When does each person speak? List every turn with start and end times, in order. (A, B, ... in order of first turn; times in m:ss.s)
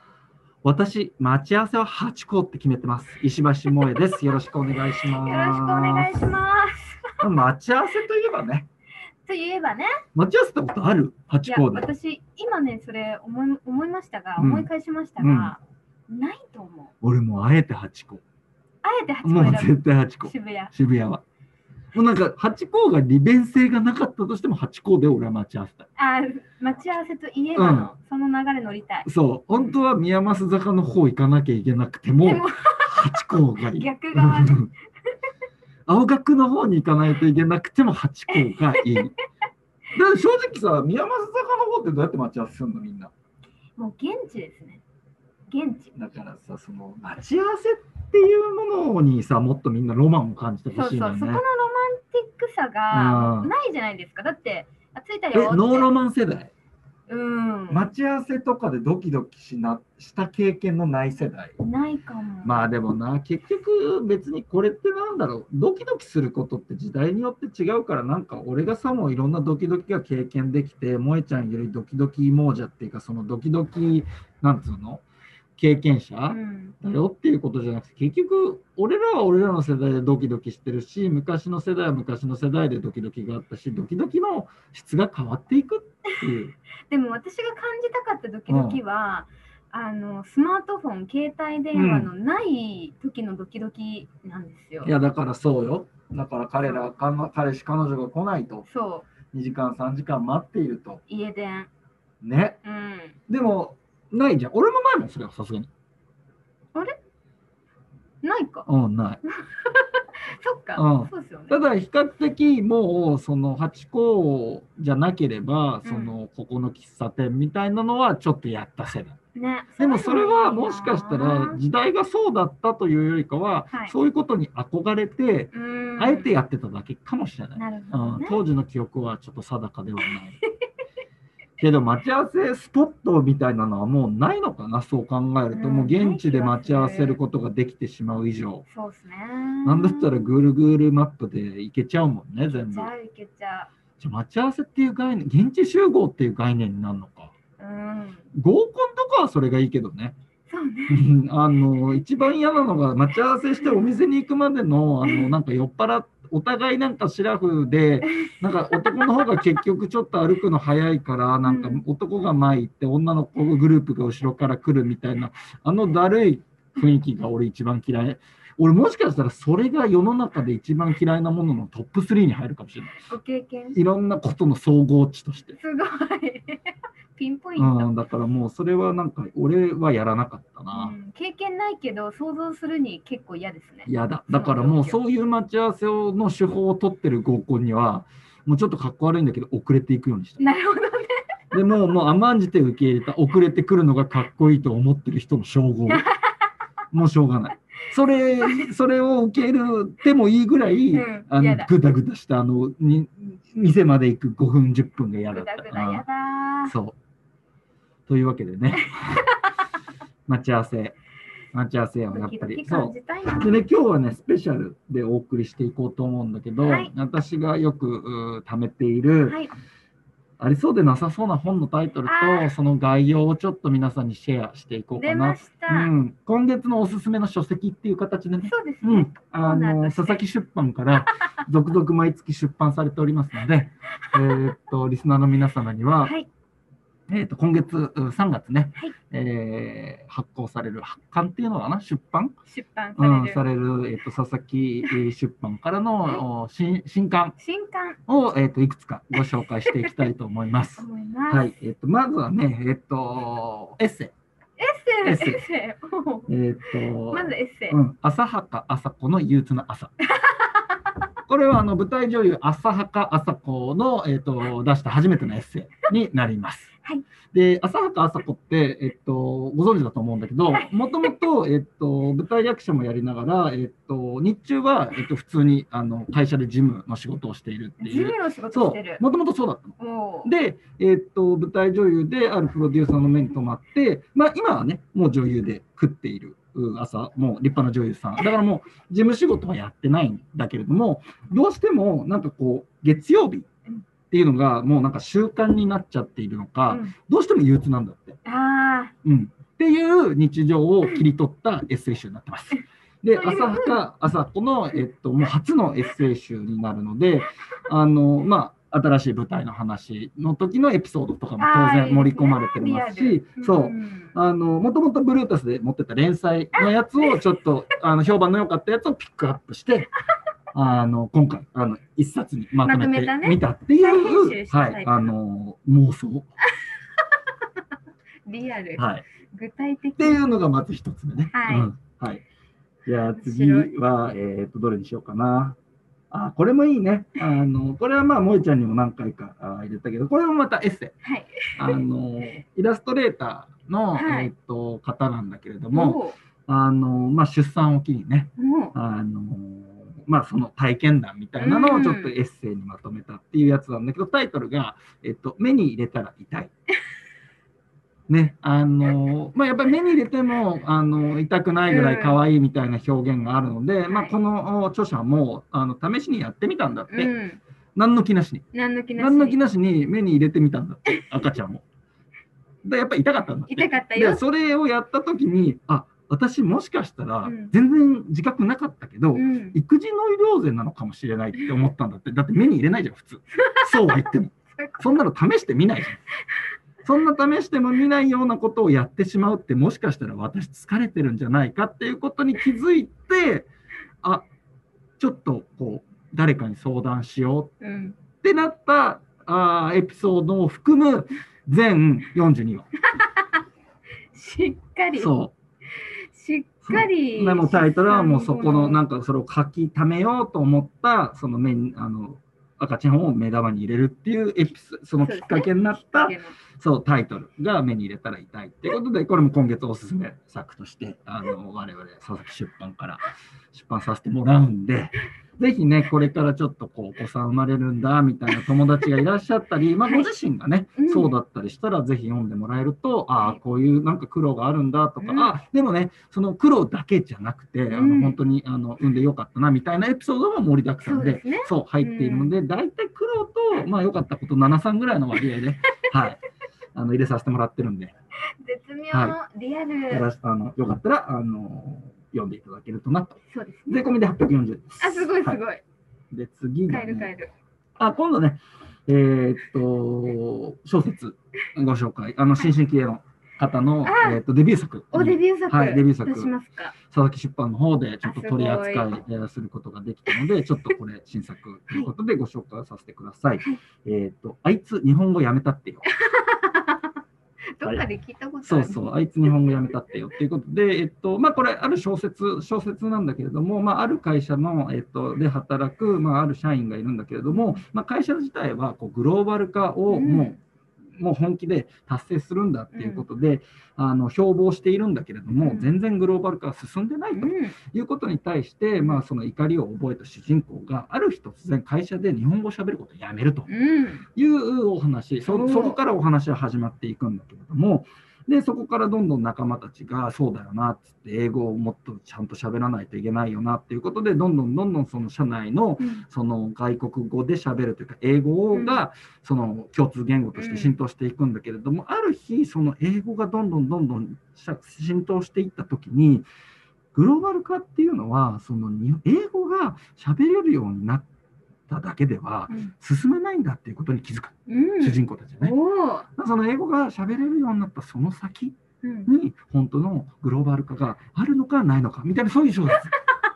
0:00.6-0:06.1 A
0:05.1-0:07.1 B
0:07.2-0:08.7 A
0:09.2-0:09.9 B
0:10.1-0:11.9 A
0:11.4-0:16.9 B
0:14.4-0:15.5 A
0:17.0-0:18.2 A
0:18.8-0:20.7 B
0:19.2-0:21.2 A
0:21.9-0:25.9 A
0:26.0-0:29.7 B
0:27.6-0:27.9 A
0:29.0-0:34.7 A
0:32.2-0:33.2 B
0:33.7-0:34.6 B
0:35.9-0:39.1 A
0:38.8-0:39.1 B
0:39.9-0:43.1 A
0:43.8-0:44.8 B
0:45.5-0:45.9 B
0:45.9-0:51.4 A
0:50.7-0:55.9 B
0:52.9-0:53.5 A
0:55.3-0:56.5 A
0:57.1-0:57.9 B
0:57.7-1:01.6 A
1:01.6-1:02.7 B
1:02.4-1:15.0 A
1:15.6-1:26.6 A
1:16.3-1:16.8 B
1:26.9-1:34.9 B
1:28.5-1:28.8 A
1:31.7-1:32.1 A
1:34.8-1:38.7 A
1:38.7-1:39.1 B
1:39.3-1:41.0 A
1:41.1-1:41.7 B
1:42.2-1:42.6 A
1:42.6-1:43.2 B
1:43.3-1:45.7 A
1:48.2-1:48.6 B
1:48.7-1:49.2 A
1:49.6-1:51.6 B
1:50.8-1:59.2 A
1:55.8-1:56.2 B
1:59.3-2:01.6 B
1:59.8-2:10.4 A
2:05.5-2:06.3 B
2:07.6-2:08.4 B
2:11.6-2:18.6 A
2:15.5-2:17.2 B
2:18.7-2:20.3 B
2:19.6-2:22.9 A
2:22.7-2:23.7 B
2:24.0-2:27.3 A
2:27.6-2:28.3 B
2:28.3-2:30.1 A
2:30.5-2:31.0 B
2:30.9-2:53.1 A
2:38.1-2:38.8 B
2:41.4-2:41.8 B
2:53.0-2:53.8 B
2:53.7-2:55.6 A
2:55.6-2:57.9 B
2:57.6-3:00.9 A
3:00.7-3:05.0 B
3:03.9-3:10.4 A
3:10.4-3:11.2 B
3:11.5-3:16.1 A
3:15.9-3:16.2 B
3:16.9-3:26.0 A
3:20.9-3:21.7 B
3:25.3-3:26.7 B
3:26.6-3:27.0 A
3:28.1-3:29.2 A
3:30.3-3:31.0 A
3:31.5-3:39.4 A
3:32.1-3:33.6 B
3:36.6-3:36.9 B
3:39.3-3:39.5 B
3:40.4-3:56.1 A
3:42.1-3:42.5 B
3:44.9-3:45.9 B
3:48.4-3:50.2 B
3:57.1-4:02.4 A
4:02.5-4:03.4 B
4:03.0-4:07.4 A
4:07.4-4:08.0 B
4:08.1-4:14.1 A
4:09.6-4:09.9 B
4:10.8-4:11.6 B
4:14.6-4:16.3 B
4:15.0-4:15.4 A
4:16.3-4:19.9 A
4:16.8-4:17.8 B
4:20.2-4:20.6 B
4:21.3-4:26.7 A
4:27.3-4:53.5 A
4:37.8-4:39.0 B
4:39.8-4:40.3 B
4:54.1-4:58.2 A
4:58.2-4:58.9 B
4:59.0-5:19.9 A
5:03.1-5:03.8 B
5:11.4-5:14.1 B
5:16.6-5:17.2 B
5:20.5-5:26.3 A
5:22.6-5:25.1 B
5:28.2-5:30.2 B
5:28.8-5:29.0 A
5:30.0-5:32.2 A
5:31.3-5:31.7 B
5:32.8-5:35.6 A
5:33.2-5:33.7 B
5:36.1-5:40.9 A
5:41.0-5:41.8 B
5:41.5-5:56.5 A
5:43.9-5:44.3 B
5:45.7-5:46.2 B
5:48.4-5:48.7 B
5:51.4-5:52.1 B
5:58.1-6:07.1 A
6:01.7-6:02.2 B
6:03.9-6:04.1 B
6:06.9-6:07.4 B
6:07.7-6:08.4 A
6:08.5-6:09.4 B
6:09.0-6:11.6 A
6:12.6-6:26.0 A
6:13.5-6:14.2 B
6:17.2-6:17.5 B
6:19.1-6:19.6 B
6:23.4-6:24.0 B
6:24.5-6:25.0 B
6:26.8-6:33.5 A
6:35.0-6:37.5 A
6:37.6-6:38.0 B
6:38.2-6:42.7 A
6:42.9-6:43.4 B
6:44.1-6:45.1 B
6:44.9-6:45.3 A
6:45.8-6:48.8 B
6:46.6-7:26.2 A
6:55.0-6:56.4 B
7:09.8-7:10.1 B
7:10.8-7:11.1 B
7:15.0-7:15.3 B
7:17.7-7:18.2 B
7:20.8-7:22.4 B
7:26.7-7:27.9 A
7:28.4-7:30.0 B
7:29.9-7:35.4 A
7:33.3-7:33.8 B
7:34.8-7:35.6 B
7:36.1-7:37.2 A
7:36.7-7:37.3 B
7:37.8-7:46.3 A
7:43.8-7:44.2 B
7:44.9-7:46.7 B
7:46.9-7:55.9 A
7:48.0-7:48.9 B
7:55.9-7:57.0 B
7:57.6-7:59.5 B
7:58.4-8:10.4 A
8:07.3-8:07.6 B
8:09.9-8:10.4 B
8:11.0-8:23.5 A
8:12.7-8:13.0 B
8:15.4-8:15.7 B
8:17.1-8:17.6 B
8:23.5-8:24.0 B
8:24.1-8:46.2 A
8:25.3-8:25.8 B
8:35.8-8:36.0 B
8:38.5-8:38.8 B
8:40.3-8:40.7 B
8:46.9-8:51.0 A
8:51.7-8:55.5 A
8:54.5-8:56.1 B
8:56.2-9:02.9 A
8:58.8-8:59.1 B